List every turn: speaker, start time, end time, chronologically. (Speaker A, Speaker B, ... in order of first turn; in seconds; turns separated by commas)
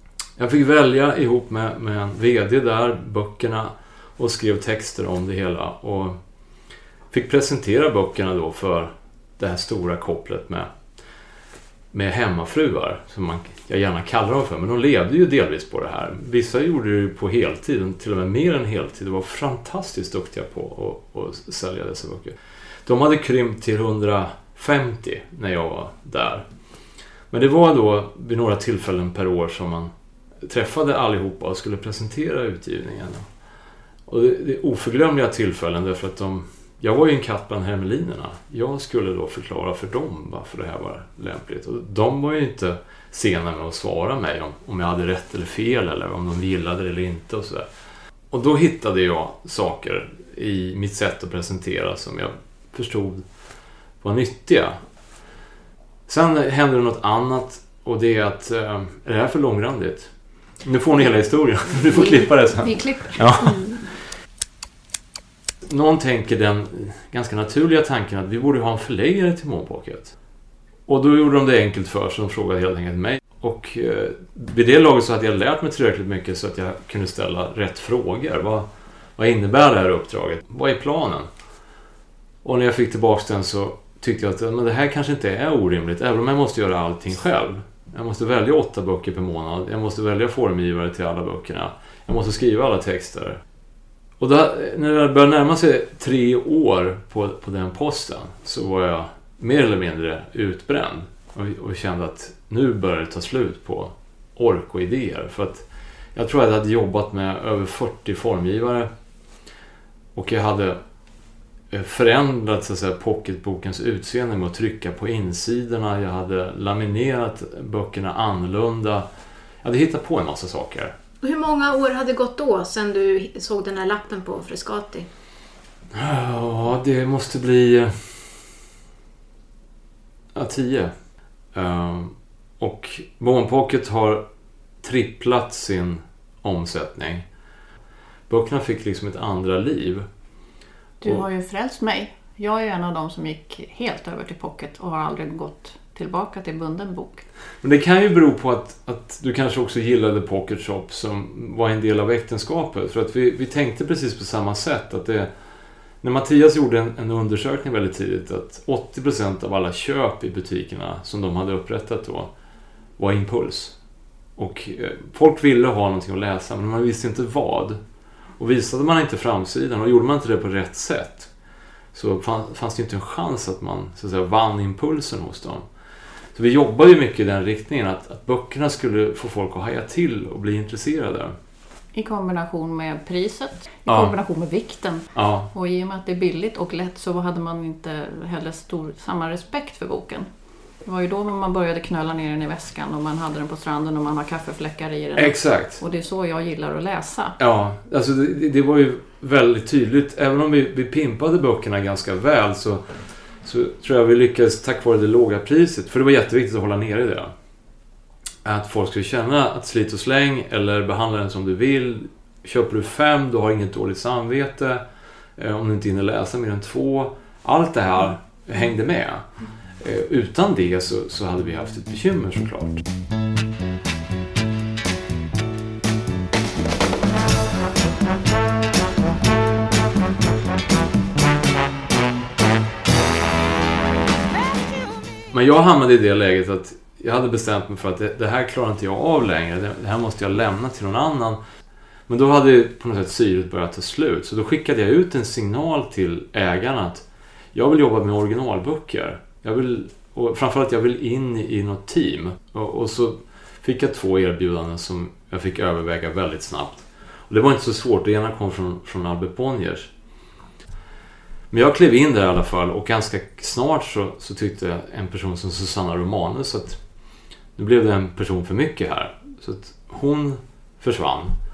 Speaker A: 0.4-6.2, Speaker A: 7.1-10.7, Speaker A: 11.9-26.4, Speaker A: 27.3-29.9, Speaker A: 30.4-33.2, Speaker A: 34.1-47.7, Speaker A: 48.3-53.2, Speaker A: 54.0-54.8, Speaker A: 56.1-60.1, Speaker A: 60.6-63.8, Speaker B: 61.9-63.3, Speaker A: 65.7-70.1, Speaker A: 70.9-81.3, Speaker A: 82.4-93.4, Speaker A: 94.2-108.9, Speaker A: 110.1-110.8, Speaker A: 111.7-119.1, Speaker A: 119.6-120.9, Speaker C: 121.2-125.1, Speaker A: 125.9-128.2, Speaker A: 130.3-130.9, Speaker A: 131.5-134.2, Speaker A: 134.8-137.2, Speaker A: 138.3-140.1, Speaker B: 141.0-147.2, Speaker A: 147.6-155.3, Speaker A: 156.0-162.3, Speaker A: 163.0-163.8, Speaker A: 164.4-167.8, Speaker A: 168.4-171.3, Speaker A: 171.9-175.7, Speaker A: 176.3-181.3, Speaker B: 181.9-190.3, Speaker A: 183.9-184.1, Speaker A: 185.1-185.5, Speaker B: 190.8-197.4, Speaker A: 195.2-195.8, Speaker A: 197.4-202.8, Speaker A: 203.4-207.3, Speaker A: 208.4-214.8, Speaker A: 215.4-219.2, Speaker A: 219.8-222.8, Speaker A: 235.3-241.4, Speaker A: 242.1-259.9, Speaker A: 261.5-266.8, Speaker A: 267.6-271.4